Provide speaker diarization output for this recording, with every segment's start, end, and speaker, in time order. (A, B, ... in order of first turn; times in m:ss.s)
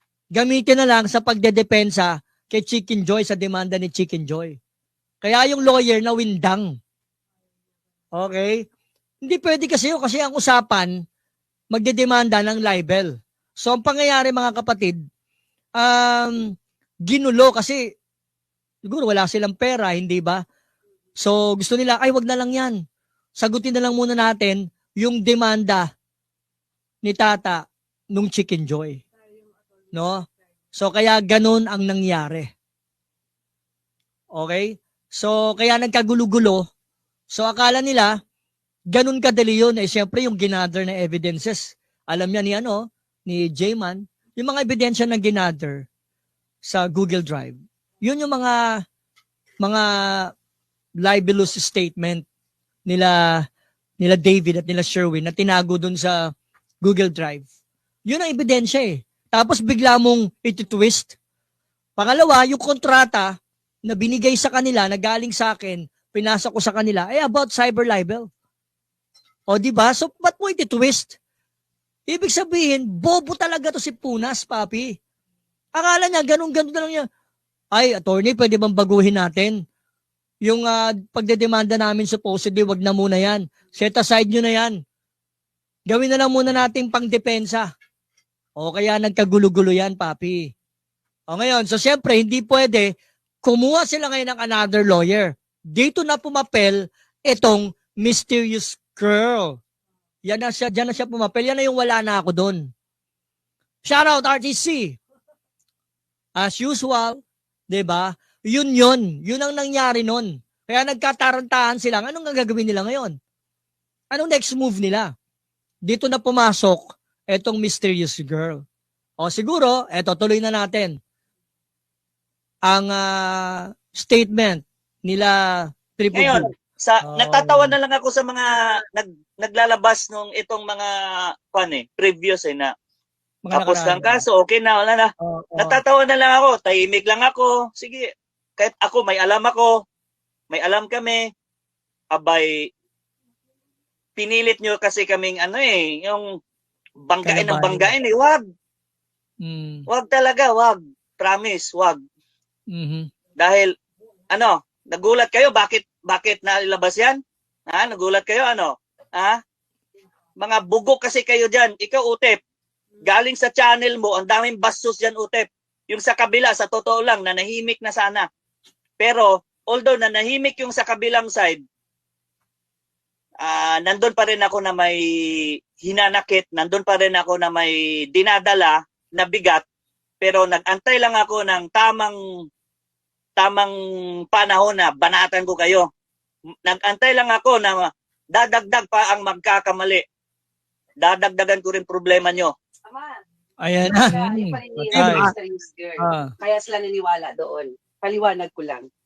0:00.3-0:04.6 A
0:05.2-0:06.8 A
0:08.1-0:08.7 A
0:09.2-0:11.0 A
0:11.7-0:15.0 A
0:15.8-0:16.5 A
0:17.1-0:17.8 A
0:18.8-0:20.4 A
0:21.2-0:22.8 A
0:23.4-0:25.9 A
0:27.0-0:29.0 A
0:29.9-0:32.5 A
0:34.3-0:36.6 A
0:37.3-0:38.1 A
0:38.9-0:45.8 A
0:46.6-0:48.6 A
0:49.6-0:50.3 A
0:51.0-0:52.2 A
0:52.9-0:53.2 A
0:54.0-0:56.2 A
0:56.8-0:57.4 A
0:58.1-1:01.1 A
1:02.0-1:03.3 A
1:03.8-1:08.3 A
1:09.5-1:11.1 A
1:12.1-1:15.0 A
1:15.7-1:17.0 A
1:17.7-1:19.6 A
1:20.4-1:24.8 A
1:25.9-1:27.7 A
1:28.6-1:30.5 A
1:31.3-1:39.6 A
1:40.2-1:42.7 A
1:43.8-1:45.0 A
1:46.4-1:53.1 A
1:54.1-1:55.1 A
1:55.8-1:58.6 A
1:59.2-2:01.0 A
2:02.7-2:06.5 A
2:06.1-2:10.9 B
2:07.0-2:07.8 A
2:11.5-2:12.7 B
2:13.4-2:14.2 A
2:13.5-2:19.7 B
2:15.2-2:15.8 A
2:20.5-2:21.2 B
2:22.1-2:22.6 B
2:24.2-2:26.2 B
2:27.1-2:28.4 B
2:27.2-2:27.9 A
2:29.4-2:29.8 A
2:29.9-2:32.0 B
2:32.7-2:33.1 A
2:33.4-2:33.7 B
2:34.3-2:37.2 B
2:37.7-2:39.4 B
2:40.4-2:42.4 B
2:43.0-2:48.2 B
2:49.0-2:51.6 B
2:53.4-2:59.6 B
3:00.2-3:02.2 B
3:03.4-3:03.7 B
3:04.3-3:05.9 B
3:06.6-3:10.0 B
3:11.0-3:12.5 B
3:12.9-3:13.2 C
3:13.6-3:15.3 A
3:13.8-3:18.9 C
3:16.0-3:16.3 A